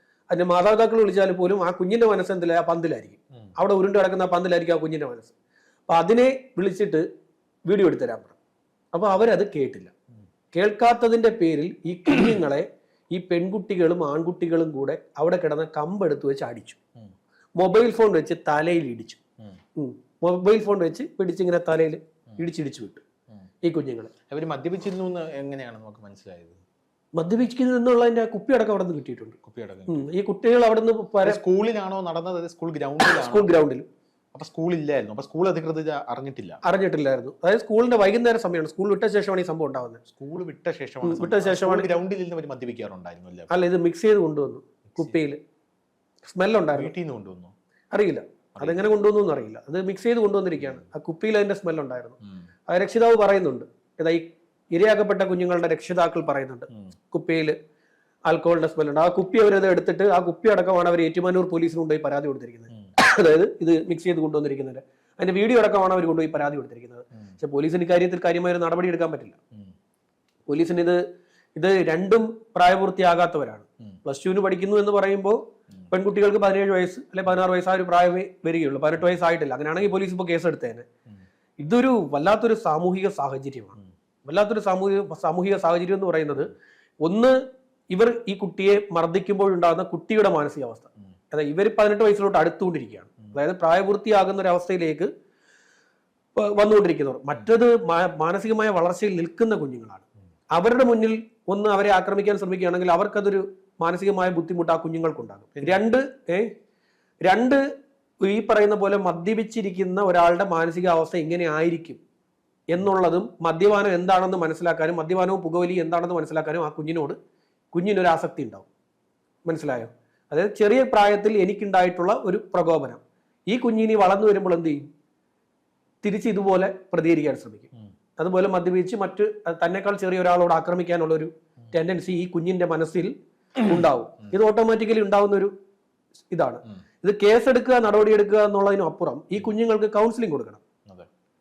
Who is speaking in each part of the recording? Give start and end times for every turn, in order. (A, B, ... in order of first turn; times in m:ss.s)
0:00.3-0:05.3 A
0:05.9-0:07.0 A
0:07.6-0:08.3 A
0:08.9-0:09.9 A
0:10.5-0:16.8 A
0:17.6-0:19.2 A
0:19.8-0:23.0 A
0:23.6-0:24.1 A
0:24.3-0:26.6 B
0:27.2-0:31.4 A
0:29.4-0:30.0 B
0:31.2-0:33.6 B
0:33.0-0:33.8 A
0:34.3-0:36.6 B
0:36.6-0:40.0 A
0:40.1-0:43.5 B
0:41.0-0:41.9 A
0:43.5-0:45.4 A
0:46.2-0:46.9 A
0:46.7-0:47.5 B
0:47.9-0:52.2 A
0:48.6-0:48.8 B
0:52.7-0:57.6 A
0:58.2-1:09.4 A
1:10.5-1:11.0 A
1:11.6-1:20.8 A
1:21.6-1:26.5 A
1:27.0-1:27.4 A
1:27.9-1:35.1 A
1:36.4-1:46.5 A
1:45.6-1:45.8 B
1:47.2-1:47.6 A
1:48.2-1:52.0 A
1:52.7-1:57.2 A
1:57.7-1:58.6 A
1:59.4-2:04.8 A
2:06.0-2:15.5 A
2:16.3-2:20.6 A